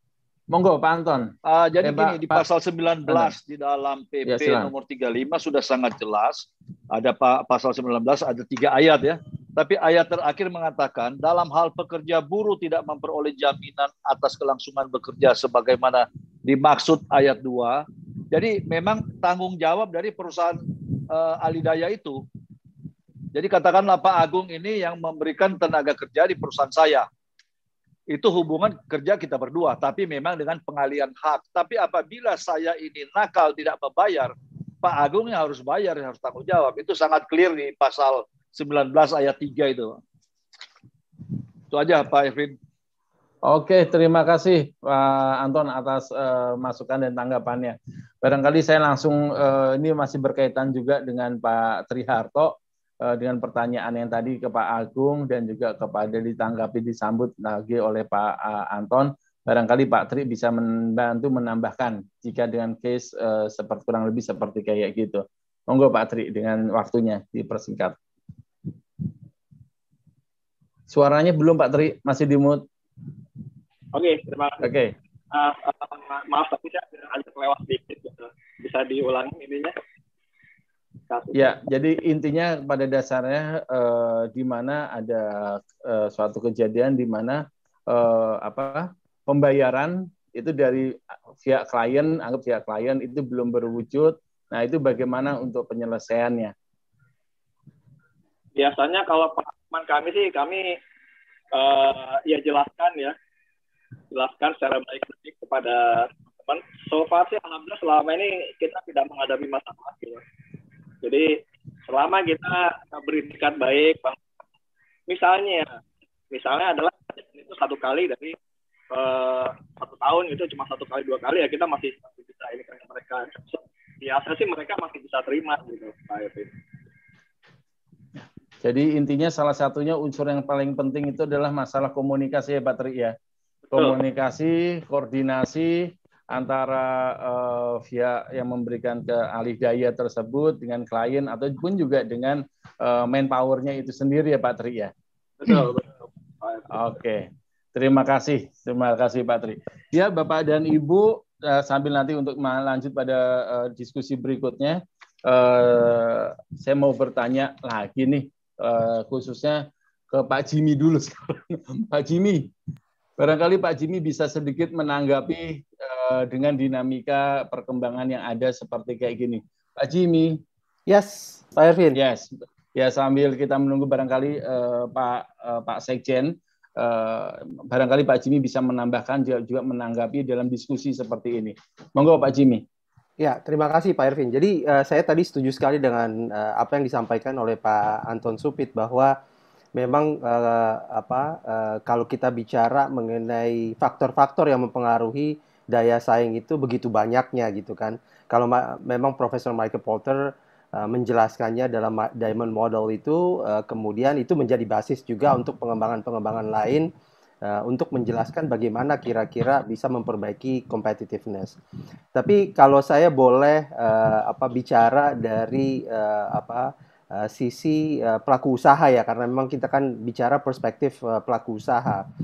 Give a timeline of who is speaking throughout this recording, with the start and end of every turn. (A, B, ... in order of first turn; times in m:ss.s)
0:00.5-0:02.4 A
0:01.4-0:22.2 B
0:03.1-0:03.3 A
0:04.2-0:04.7 A
0:23.3-0:27.0 B
0:28.1-0:40.0 B
0:41.7-0:42.6 B
0:43.4-1:08.0 A
1:10.9-1:12.6 A
1:13.9-1:14.6 C
1:14.6-1:14.9 A
1:15.3-1:19.7 C
1:21.1-1:21.5 C
1:21.3-1:36.5 A
1:38.6-1:40.8 C
1:41.5-1:43.1 C
1:44.1-1:50.2 C
1:51.0-1:54.2 C
1:55.1-1:55.8 C
1:56.3-1:58.4 C
1:58.9-2:06.5 C
2:08.6-2:13.1 A
2:13.7-2:24.9 A
2:25.4-2:26.8 C
2:26.7-2:42.5 A
2:43.2-2:50.4 A
2:50.9-2:52.0 D
2:51.9-3:02.6 A
3:03.2-3:09.2 D
3:09.7-3:26.9 D
3:27.4-3:31.6 D
3:32.1-3:42.1 D